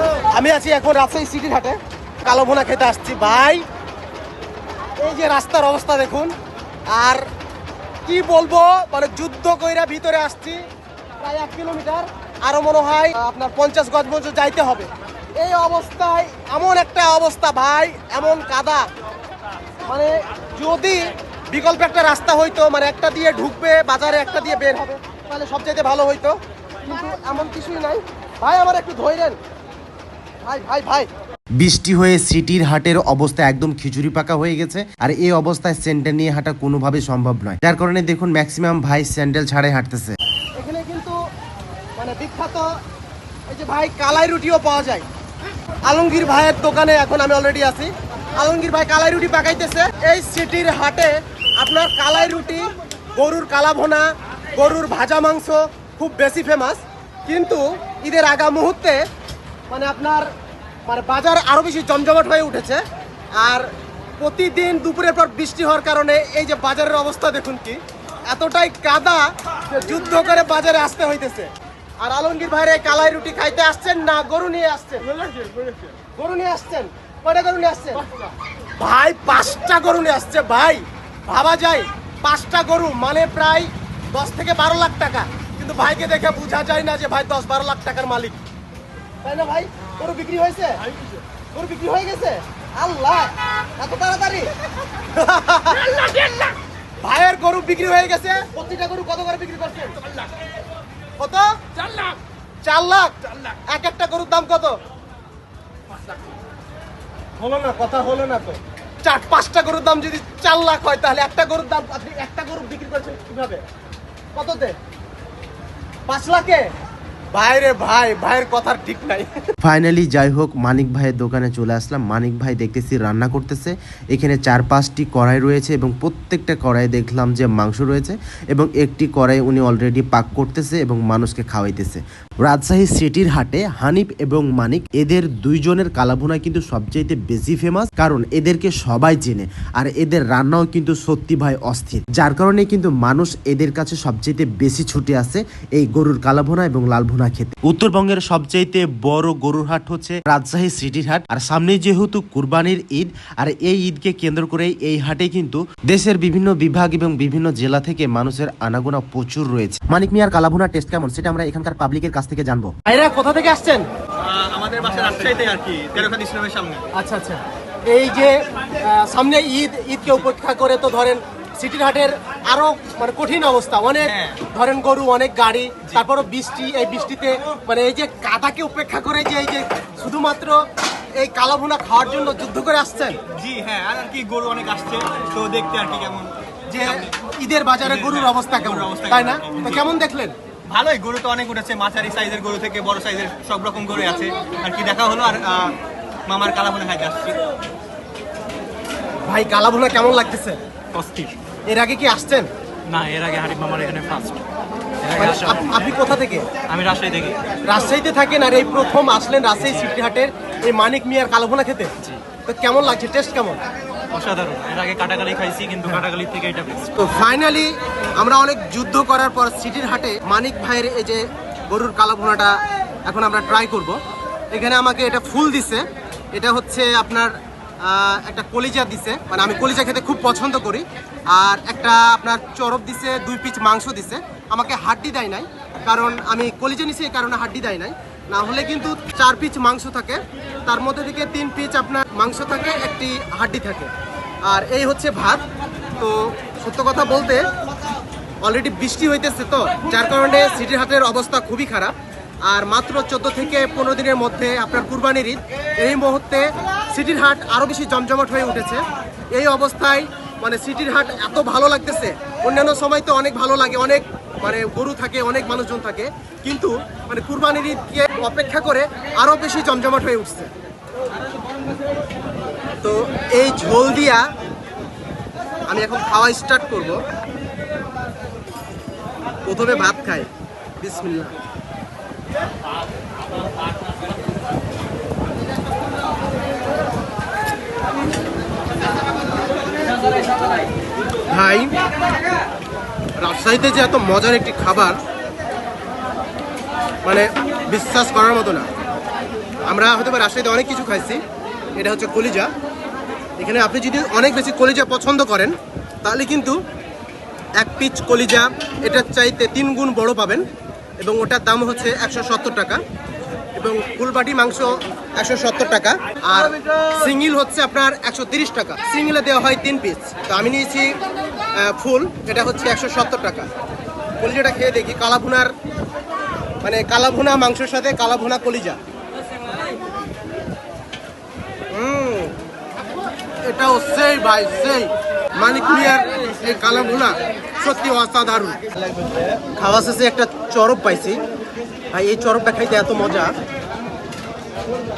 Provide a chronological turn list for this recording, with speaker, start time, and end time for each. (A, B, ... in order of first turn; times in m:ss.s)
0:00.4-0:03.6 A
0:05.0-0:06.3 A
0:06.9-0:07.3 A
0:08.1-0:10.6 A
0:11.2-0:18.9 A
0:19.9-0:29.4 A
0:30.4-0:31.1 A
0:31.6-0:40.2 B
0:40.6-0:41.2 A
0:42.0-0:42.7 A
0:43.5-0:45.1 A
0:45.9-0:59.0 A
0:59.7-1:00.3 A
1:00.9-1:02.8 A
1:03.4-1:15.5 A
1:16.2-1:18.1 A
1:18.8-1:28.4 A
1:29.2-1:30.8 A
1:31.5-1:40.0 A
1:41.2-1:41.5 A
1:42.6-1:44.8 A
1:47.4-1:53.6 A
1:54.4-1:54.8 A
1:56.1-1:56.6 A
1:57.3-1:59.5 A
1:59.6-2:42.7 B
2:42.9-2:43.9 A
2:44.2-2:46.9 C
2:47.0-3:00.6 A
2:54.0-2:54.5 C
3:01.2-3:03.2 A
3:03.3-3:06.3 C
3:06.7-3:10.4 A
3:06.8-3:07.1 C
3:07.8-3:09.8 C
3:10.7-3:17.4 C
3:19.3-3:20.6 A
3:20.9-3:21.4 D
3:21.7-3:22.5 A
3:22.9-3:24.4 D
3:25.0-3:25.7 D
3:25.2-3:26.5 A
3:26.7-3:27.4 D
3:27.6-3:31.9 A
3:32.5-3:33.6 A
3:34.1-3:37.0 D
3:37.0-3:44.0 A
3:44.5-4:03.9 A
4:04.4-4:05.4 A
4:06.0-4:07.4 A
4:08.4-4:30.5 A
4:32.8-4:34.2 A
4:35.7-4:37.0 A
4:39.5-4:40.3 A
4:40.8-4:41.4 A
4:51.3-4:51.7 A
4:53.2-4:55.0 A
4:57.0-4:58.7 A
4:59.7-5:01.2 A
5:01.8-5:02.5 A
5:03.4-5:06.6 A
5:07.6-5:10.5 A
5:11.0-5:12.8 A
5:13.6-5:21.0 A
5:21.6-5:23.5 A
5:24.2-5:25.5 A
5:26.6-5:28.8 A
5:31.7-5:32.3 A
5:33.4-5:38.6 A
5:39.6-5:41.2 A
5:41.9-5:43.3 A